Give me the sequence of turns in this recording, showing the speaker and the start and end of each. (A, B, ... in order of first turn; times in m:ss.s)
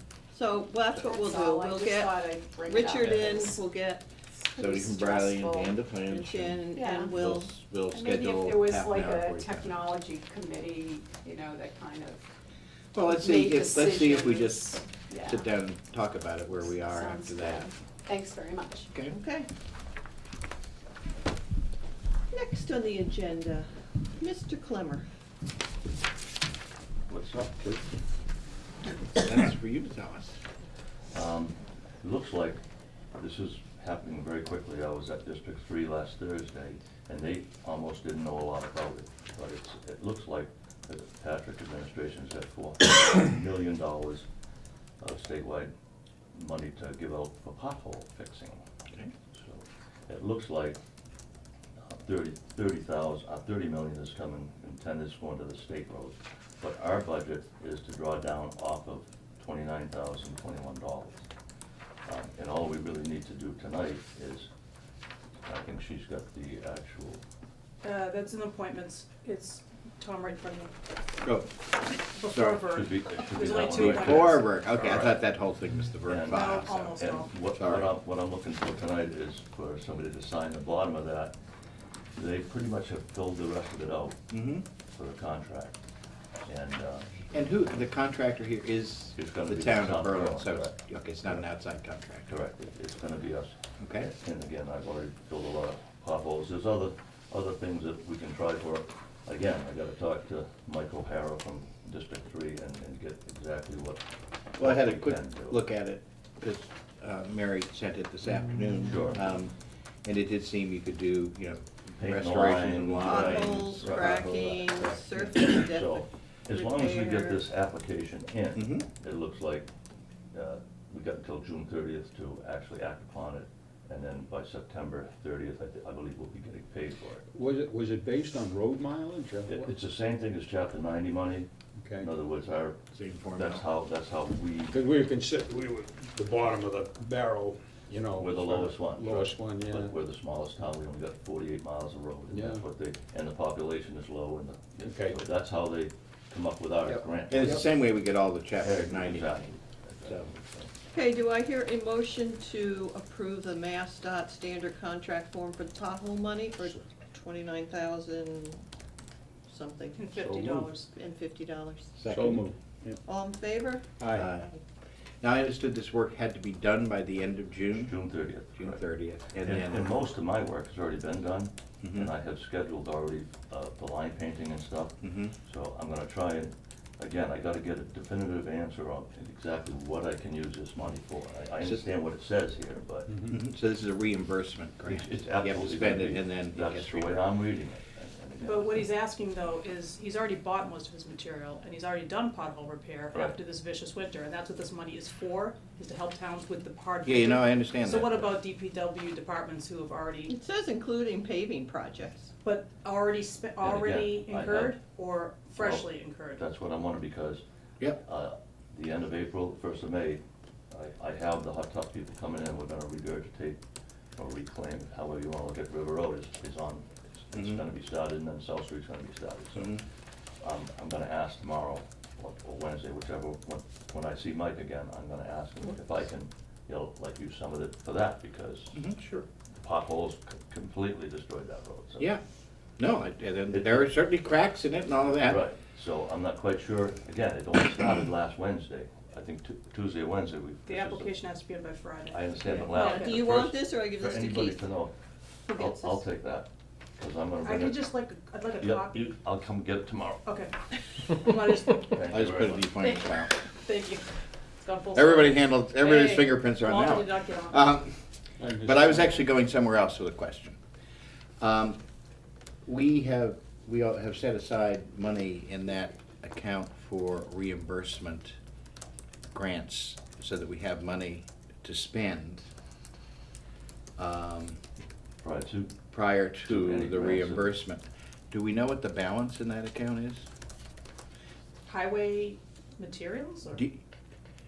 0:00.3-0:04.0 A
0:00.9-0:03.6 B
0:03.0-0:03.4 C
0:04.4-0:05.7 B
0:04.5-0:09.8 C
0:06.1-0:07.5 A
0:06.7-0:07.1 B
0:07.9-0:12.2 B
0:12.9-0:17.7 C
0:13.0-0:15.5 B
0:16.6-0:18.9 B
0:18.9-0:19.2 C
0:19.1-0:19.5 A
0:22.3-0:25.0 A
0:27.1-0:27.8 D
0:29.1-0:30.4 C
0:31.1-0:32.6 D
0:33.1-0:44.2 D
0:45.0-0:45.7 D
0:46.3-0:48.6 D
0:49.3-0:50.8 D
0:51.8-1:01.2 D
1:02.0-1:04.5 D
1:05.4-1:07.2 D
1:07.8-1:10.7 E
1:11.2-1:11.6 C
1:12.2-1:14.4 E
1:12.2-1:12.7 C
1:12.7-1:15.2 D
1:13.5-1:17.0 C
1:16.1-1:21.3 D
1:16.3-1:17.3 E
1:17.5-1:17.9 C
1:22.2-1:24.3 D
1:24.3-1:24.6 C
1:24.9-1:25.8 D
1:26.4-1:27.3 D
1:27.3-1:32.3 C
1:29.1-1:30.8 D
1:32.3-1:44.0 D
1:33.8-1:34.1 C
1:44.6-1:45.6 D
1:44.6-1:49.5 C
1:48.8-1:49.2 D
1:50.0-1:54.1 C
1:52.0-1:59.7 D
1:52.9-1:57.4 A
1:58.6-1:58.8 C
2:00.3-2:07.2 D
2:07.3-2:09.7 F
2:09.5-2:12.8 D
2:11.8-2:12.1 F
2:12.9-2:13.6 C
2:13.3-2:14.8 D
2:14.7-2:19.9 F
2:18.1-2:27.6 D
2:22.3-2:22.6 F
2:24.8-2:25.2 F
2:26.9-2:29.5 C
2:28.6-2:30.7 D
2:30.9-2:38.6 A
2:39.5-2:40.1 A
2:39.9-2:40.9 E
2:40.1-2:40.8 F
2:40.8-2:41.9 A
2:42.0-2:43.0 F
2:42.0-2:42.4 C
2:43.0-2:43.8 A
2:44.0-2:44.3 F
2:44.1-2:44.6 C
2:45.2-2:48.0 C
2:47.8-2:48.9 D
2:48.6-2:49.9 C
2:49.4-3:03.1 D
2:51.8-2:52.1 C
2:55.0-2:55.3 C
3:03.3-3:07.2 C
3:04.8-3:08.9 D
3:08.4-3:20.3 E
3:17.0-3:18.3 C
3:20.3-3:22.3 A
3:22.4-3:26.4 E
3:23.6-3:24.8 D
3:25.5-3:33.6 D
3:34.2-3:39.8 D
3:37.4-3:37.6 C
3:40.4-3:48.8 D
3:48.7-3:49.3 C
3:49.6-3:52.1 D
3:52.8-3:55.4 C
3:53.5-3:53.8 D
3:55.2-4:01.2 D
4:00.6-4:03.2 E
4:02.1-4:04.9 D
4:02.5-4:04.6 A
4:05.5-4:06.0 A
4:05.5-4:07.9 D
4:07.4-4:09.2 E
4:08.6-4:10.2 D
4:10.2-4:10.5 E
4:11.0-4:12.0 E
4:11.9-4:12.7 D
4:12.1-4:13.3 C
4:12.8-4:13.1 E
4:13.6-4:14.0 E
4:14.6-4:17.7 E
4:14.9-4:17.9 C
4:18.4-4:19.1 F
4:18.6-4:20.6 C
4:21.4-4:21.8 C
4:22.6-4:28.3 C
4:29.3-4:32.4 C
4:34.0-4:34.6 C
4:35.2-4:35.8 D
4:35.9-4:40.2 C
4:36.4-4:37.5 D
4:41.7-4:43.6 E
4:43.5-4:43.8 C